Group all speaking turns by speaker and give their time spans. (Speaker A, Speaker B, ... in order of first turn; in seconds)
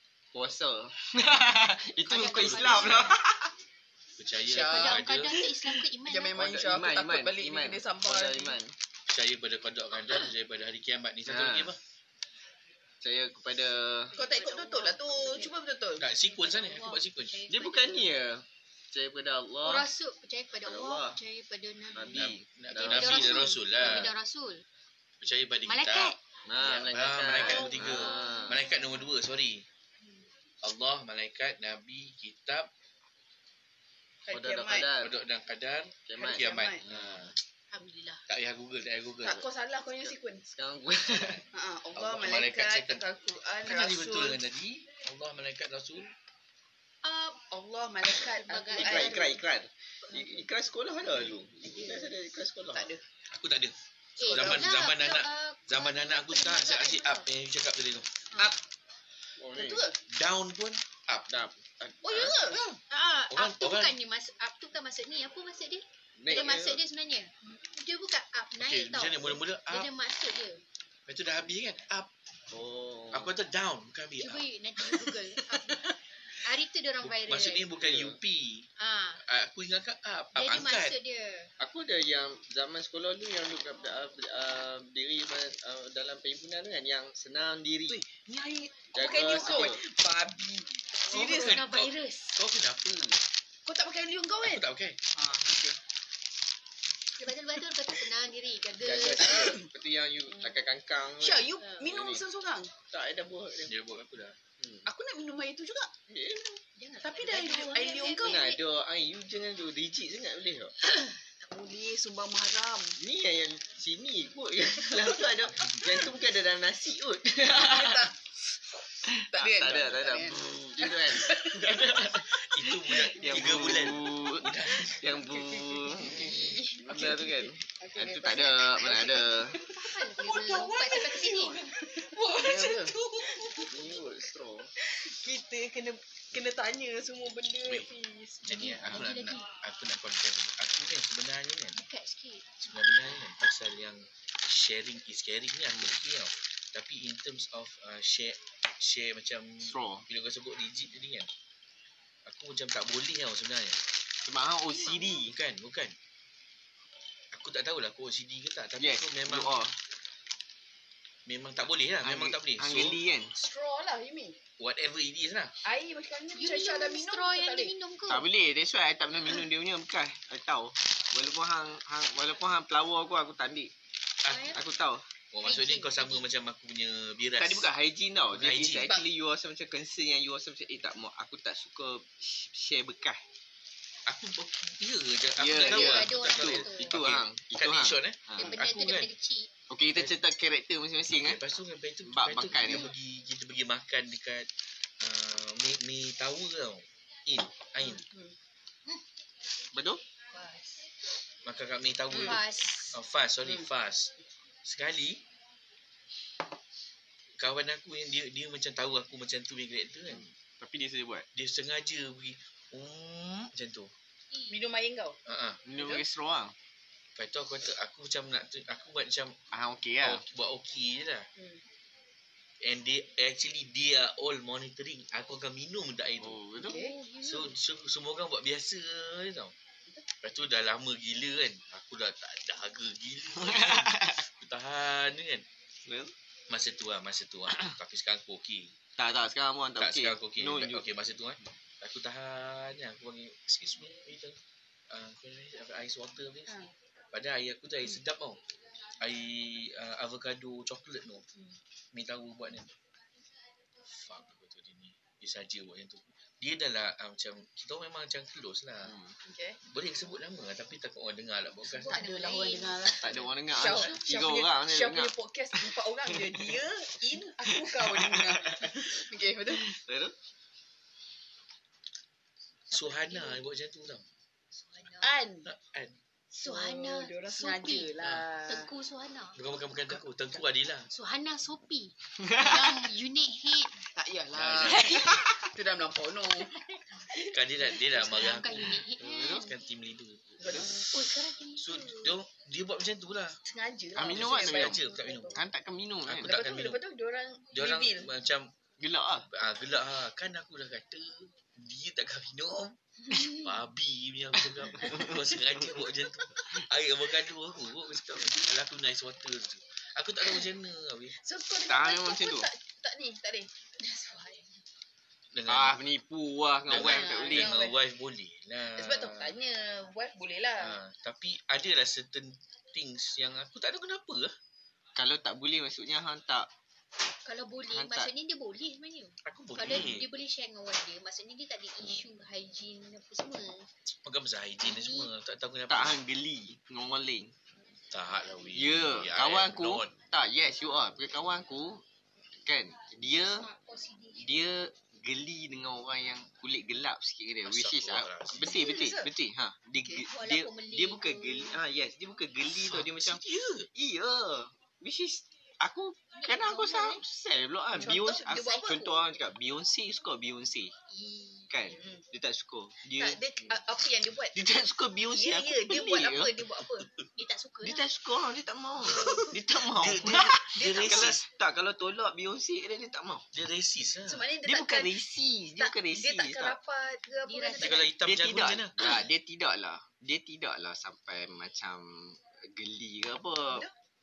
Speaker A: 0.3-3.5, 5.4-5.8, 6.3-8.8, 11.3-11.7, 13.0-14.1, 17.5-19.9, 20.6-21.2, 21.9-24.0, 26.5-28.6, 34.3-35.2, 36.1-37.3, 40.0-41.4, 48.7-52.9, 59.4-59.8, 61.3-62.3, 66.2-66.8, 72.5-73.4, 77.8-78.2, 81.6-88.0, 88.9-89.8, 98.8-102.2, 102.9-103.7, 104.6-104.8, 106.1-106.6, 108.2-110.7, 113.0-118.1, 119.1-129.6, 132.4-133.0, 133.6-134.7, 149.6-150.1, 154.2-155.4, 158.8-159.8, 162.0-163.3, 168.1-173.7, 174.5-175.1, 177.4-183.2, 185.4-188.5, 189.7-191.4, 192.0-192.9, 199.7-200.0, 210.1-211.3, 215.7-216.5, 219.5-220.2, 226.2-226.8, 233.4-234.2, 235.8-236.1, 239.0-240.8, 258.9-259.1, 262.9-266.5, 267.5-269.0, 269.5-270.1, 289.0-289.5, 293.9-294.8, 295.3-296.4, 298.8-299.3, 304.8-305.1, 311.7-312.5, 315.5-317.5, 325.0-326.5, 327.7-328.1, 335.7-337.3, 338.5-341.8, 342.4-343.5, 344.2-353.2, 353.7-360.7, 361.5-363.2, 364.3-366.5, 367.6-373.3, 374.4-376.6, 378.0-383.7
Speaker B: 2.1-3.2, 4.5-6.4, 14.1-15.5, 16.2-18.1, 19.6-24.6, 25.6-26.2, 27.4-28.8, 37.7-38.2, 47.0-47.5, 48.2-49.4, 50.1-50.4, 54.2-57.3, 62.9-70.6, 74.2-77.7, 78.8-79.2, 80.3-81.5, 91.1-92.4, 97.2-99.6, 106.8-108.6, 129.8-131.7, 138.5-139.5, 141.7-142.6, 166.3-168.3, 174.3-174.6, 175.4-176.2, 185.6-187.0, 188.4-189.5, 200.3-200.7, 202.1-202.9, 226.6-227.6, 261.7-263.0, 272.7-273.4, 274.5-275.1, 276.4-279.4, 280.9-283.8, 287.9-289.5, 290.9-291.9, 327.2-333.7, 334.6-335.1, 343.2-344.4, 350.0-351.6, 356.1-357.0, 360.9-361.8, 367.2-367.9, 377.2-377.9
Speaker C: 2.1-3.2, 4.2-5.4, 9.1-11.8, 16.0-17.4, 22.1-24.1, 25.2-29.7, 30.6-32.7, 35.0-37.3, 38.3-39.4, 42.0-43.0, 43.6-46.1, 53.3-58.2, 60.1-61.3, 63.3-64.0, 68.6-69.9, 71.1-72.1, 73.1-74.4, 77.0-78.7, 79.2-81.0, 91.1-93.2, 94.4-95.0, 103.7-104.4, 122.0-125.0, 138.4-141.8, 142.6-151.3, 152.2-153.8, 155.3-155.9, 157.3-159.6, 161.3-163.0, 164.6-165.6, 174.2-174.5, 175.3-177.7, 178.3-178.9, 184.1-189.1, 191.2-194.5, 195.0-198.1, 201.4-205.2, 207.4-210.3, 211.3-213.9, 215.3-215.6, 217.2-219.4, 220.0-221.3, 222.6-226.4, 227.2-229.5, 230.2-235.4, 236.5-238.7, 239.8-244.4, 244.9-246.6, 247.1-248.4, 249.0-251.3, 251.9-252.7, 253.9-258.9, 259.6-262.0, 272.7-274.1, 275.5-276.0, 279.4-280.9, 284.4-285.0, 287.2-290.6, 291.6-293.4, 294.1-295.4, 296.1-296.8, 297.5-298.5, 299.3-311.1, 315.3-315.8, 316.7-319.4, 320.6-324.4, 329.2-330.1, 334.0-336.0, 337.9-339.9, 347.4-348.6, 352.6-353.7, 369.7-371.2, 373.3-374.2, 377.6-378.8
Speaker D: 4.5-5.0, 6.0-8.6, 14.2-16.1, 34.2-34.9, 36.2-36.8, 39.2-40.4, 41.5-44.4, 47.5-49.4, 52.7-53.0, 54.2-54.6, 59.5-60.0, 62.0-62.6, 87.9-91.7, 93.7-94.6, 95.2-95.8, 99.2-99.7, 101.2-102.7, 104.9-105.9, 107.0-108.5, 111.0-113.0, 117.5-118.2, 119.2-121.8, 123.3-123.7, 125.1-134.0, 134.8-138.7, 163.3-164.4, 165.6-167.7, 197.8-198.3, 214.5-215.2, 226.6-227.0, 259.2-259.6, 261.8-269.7, 275.0-275.5, 276.3-278.7, 283.9-286.6, 290.4-290.9, 293.4-295.4, 296.2-298.1, 311.1-314.4, 316.7-317.8, 318.8-320.8, 348.5-349.1, 357.7-359.0, 362.9-364.4, 365.1-366.9, 370.6-371.1, 374.1-375.0, 375.6-377.9